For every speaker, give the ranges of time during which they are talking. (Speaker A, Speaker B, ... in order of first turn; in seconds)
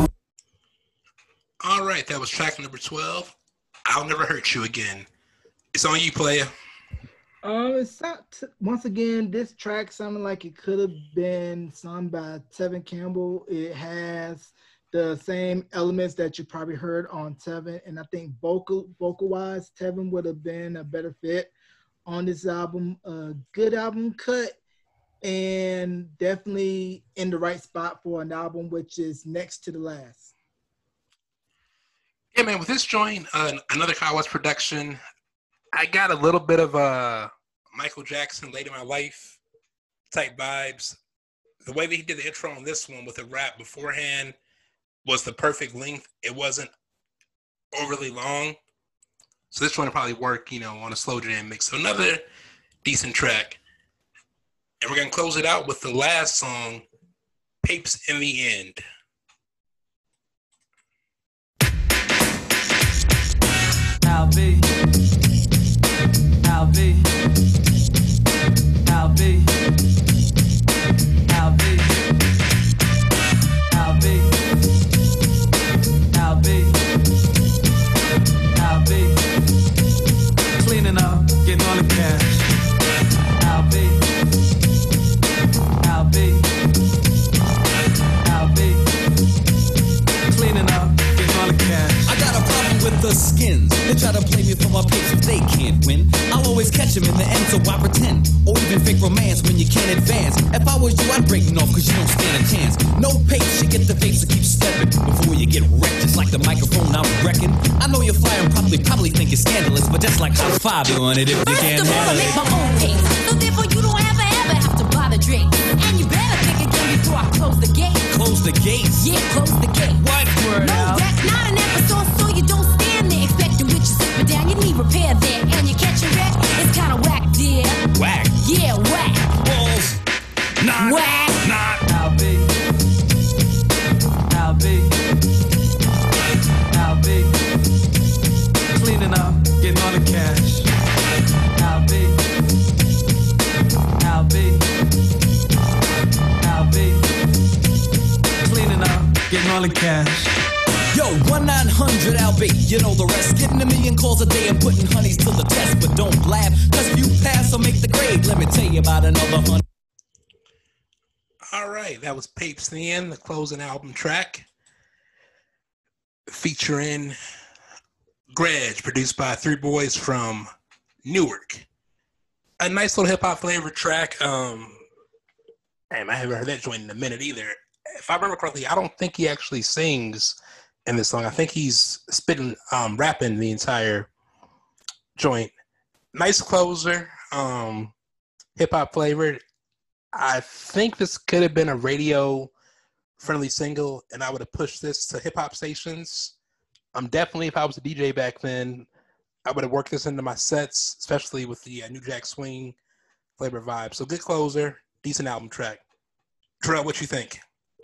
Speaker A: 1.6-3.3, 3.9-5.1, 5.7-6.5, 32.4-35.0, 35.7-39.4, 40.1-41.0, 41.6-44.4, 45.0-46.7, 47.7-48.6, 49.5-52.2, 52.8-53.6, 54.8-56.9, 57.6-58.8, 161.5-164.5, 166.3-167.2, 168.3-170.5, 171.1-171.7, 172.6-174.8, 175.9-184.1, 185.2-185.5, 186.1-187.9, 188.6-189.4, 190.1-192.5, 193.2-196.3, 196.9-198.9, 199.5-202.8, 203.4-205.8, 206.6-207.4
Speaker B: 7.4-21.5, 22.1-24.6, 25.2-30.3
Speaker C: 64.0-64.7, 66.4-67.1, 68.9-69.5, 71.3-72.0, 73.7-74.4, 76.1-76.8, 78.6-79.2, 80.6-82.5, 83.4-84.0, 85.8-86.5, 88.2-88.9, 90.3-92.2, 120.4-121.0, 131.9-132.5, 134.3-134.9, 136.7-137.3, 138.7-140.7, 141.6-142.2, 144.0-144.7, 146.4-147.1, 148.4-150.4
Speaker D: 92.1-112.8, 118.1-119.1, 120.0-121.0, 127.9-128.4, 129.4-130.0, 130.6-131.8, 150.9-159.6
Speaker E: 111.4-118.1, 119.0-120.0, 120.6-129.4, 130.8-131.5